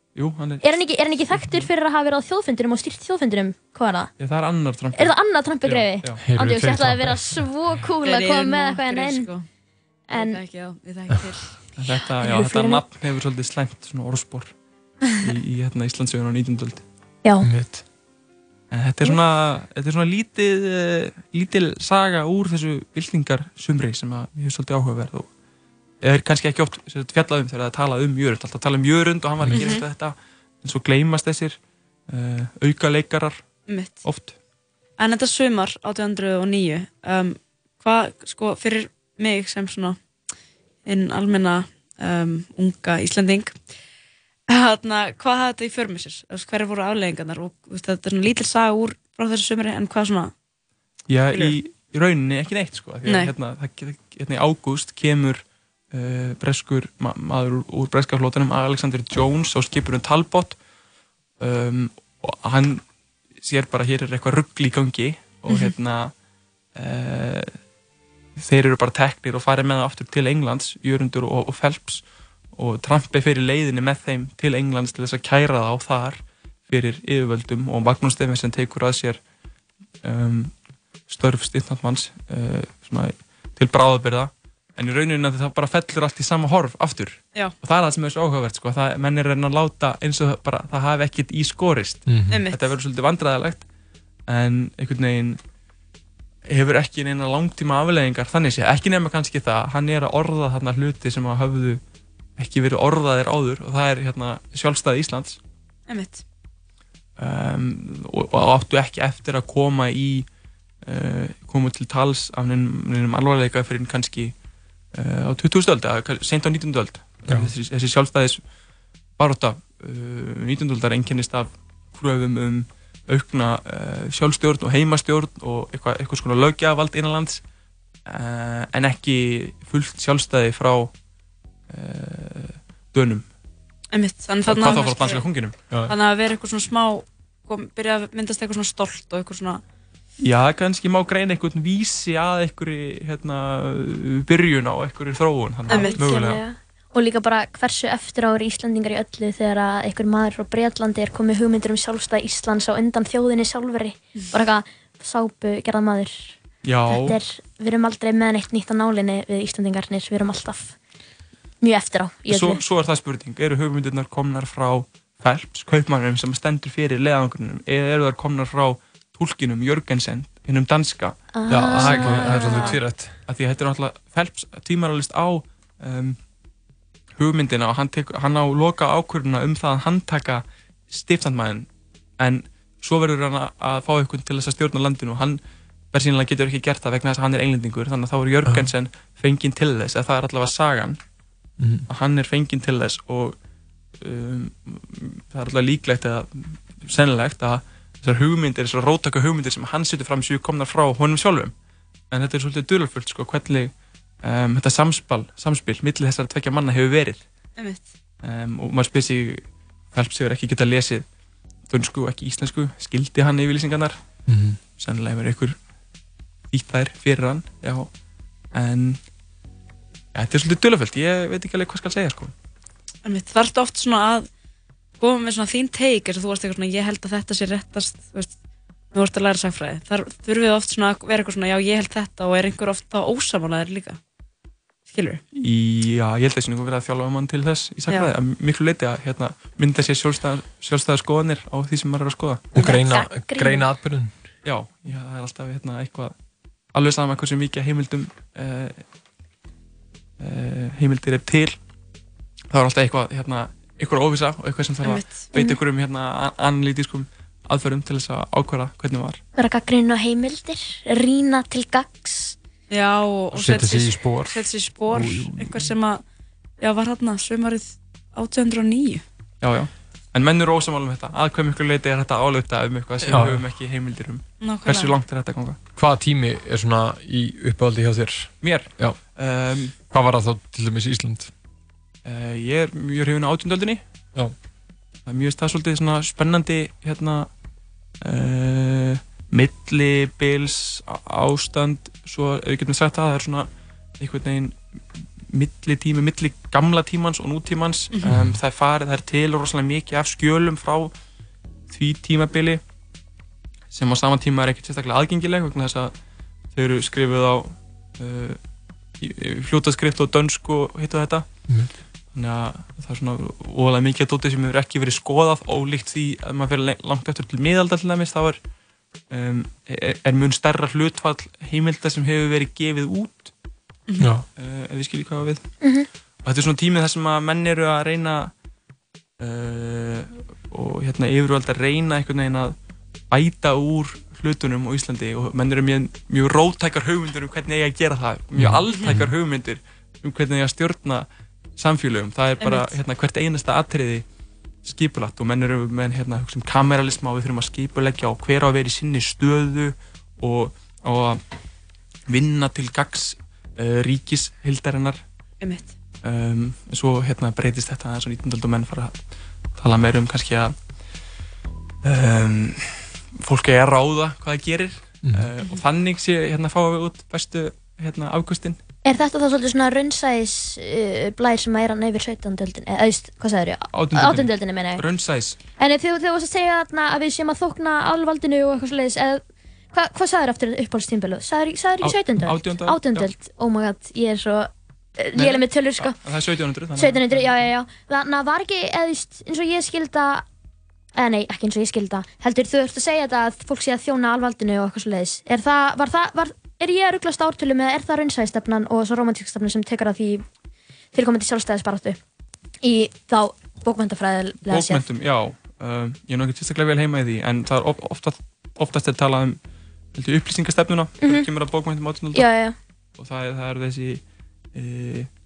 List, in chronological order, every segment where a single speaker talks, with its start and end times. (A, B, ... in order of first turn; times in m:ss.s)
0:00.2-0:00.8 A
0:00.6-0:04.1 B
0:01.3-0:01.7 A
0:04.2-0:06.2 A
0:05.0-0:09.3 B
0:06.2-0:07.5 C
0:08.0-0:09.5 D
0:10.1-0:10.4 B
0:10.1-0:11.6 D
0:11.8-0:14.5 A
0:12.2-0:12.8 B
0:15.1-0:16.8 A
0:17.2-0:17.5 B
0:17.4-0:17.8 C
0:18.7-0:25.3 A
0:26.0-0:31.6 A
0:29.5-0:29.8 D
0:32.1-0:33.4 A
0:33.7-0:34.0 D
0:34.0-0:34.4 A
0:35.0-0:40.0 D
0:40.8-0:43.6 D
0:44.5-0:50.3 D
0:51.1-1:00.6 A
0:51.3-0:51.6 D
0:53.0-0:53.3 D
1:01.4-1:02.8 A
1:03.4-1:06.1 A
1:05.5-1:05.7 D
1:06.8-1:07.6 A
1:08.4-1:19.2 A
1:20.0-1:20.5 A
1:21.1-1:33.6 A
1:32.1-1:32.4 C
1:32.3-1:32.8 D
1:34.3-1:35.4 A
1:36.5-1:41.8 A
1:42.4-1:45.4 A
1:45.9-1:46.2 D
1:47.2-1:50.3 A
1:50.8-1:54.3 A
1:54.9-1:58.4 A
1:57.3-1:57.5 C
1:59.2-2:07.4 A
2:08.1-2:10.9 A
2:11.7-2:13.3 A
2:13.9-2:15.3 D
2:14.5-2:15.6 A
2:15.8-2:19.6 D
2:20.2-2:26.4 A
2:25.7-2:26.0 D
2:25.7-2:36.4 B
2:36.6-2:37.2 A
2:36.9-2:40.8 B
2:41.6-2:42.6 B
2:42.3-2:56.2 A
2:51.3-2:52.8 B
2:51.5-2:53.2 C
2:57.2-3:01.7 A
3:02.2-3:05.4 A
3:05.9-3:11.0 A
3:11.6-3:11.9 C
3:11.9-3:13.4 A
3:14.0-3:21.5 A
3:22.1-3:23.7 A
3:24.2-3:27.2 A
3:27.6-3:27.8 D
3:28.2-3:31.0 A
3:31.7-3:34.0 A
3:34.3-3:34.6 C
3:34.8-3:35.6 A
3:36.5-3:37.9 A
3:38.5-3:39.0 A
3:40.1-3:42.3 A
3:43.0-3:44.3 D
3:45.0-3:48.3 D
3:48.9-3:54.0 D
3:54.9-3:55.2 D
3:55.3-4:02.5 A
4:02.5-4:04.1 C
4:02.6-4:03.7 B
4:04.4-4:06.1 A
4:06.7-4:08.8 A
4:10.2-4:11.6 A
4:12.5-4:19.2 A
4:14.8-4:15.3 D
4:19.4-4:22.4 B
4:22.7-4:26.0 D
4:23.3-4:25.6 C
4:26.6-4:29.0 D
4:29.4-4:35.6 A
4:33.1-4:33.4 C
4:34.4-4:34.9 D
4:35.8-4:39.0 C
4:38.4-4:39.8 A
4:39.9-4:41.3 C
4:42.0-4:43.8 A
4:45.1-4:47.3 A
4:48.0-4:53.5 A
4:54.0-5:00.9 A
4:58.0-4:58.4 C
5:01.7-5:02.6 A
5:03.7-5:05.9 A
5:06.5-5:08.4 A
5:09.0-5:11.3 A
5:12.1-5:18.4 A
5:19.1-5:23.3 A
5:24.0-5:24.3 C
5:24.4-5:25.5 A
5:25.6-5:25.9 B
5:26.2-5:28.3 A
5:29.2-5:32.5 A
5:33.1-5:41.1 A
5:38.4-5:39.1 C
5:41.6-5:44.0 A
5:42.4-5:42.8 D
5:44.6-5:51.2 A
5:52.1-5:55.0 A
5:55.4-5:55.7 D
5:56.0-5:59.0 A
5:59.6-6:00.6 A
6:01.8-6:08.6 A
6:05.0-6:05.3 C
6:08.8-6:14.8 B
6:13.7-6:15.4 A
6:15.6-6:19.2 B
6:19.7-6:26.0 B
6:21.8-6:23.1 A
6:25.2-6:27.4 A
6:26.8-6:30.3 B
6:31.0-6:40.2 B
6:40.9-6:42.0 B
6:42.6-6:44.8 B
6:44.5-6:49.4 A
6:49.9-6:52.3 A
6:51.0-6:51.3 B
6:52.1-6:52.6 B
6:53.0-6:54.0 A
6:54.5-6:55.1 A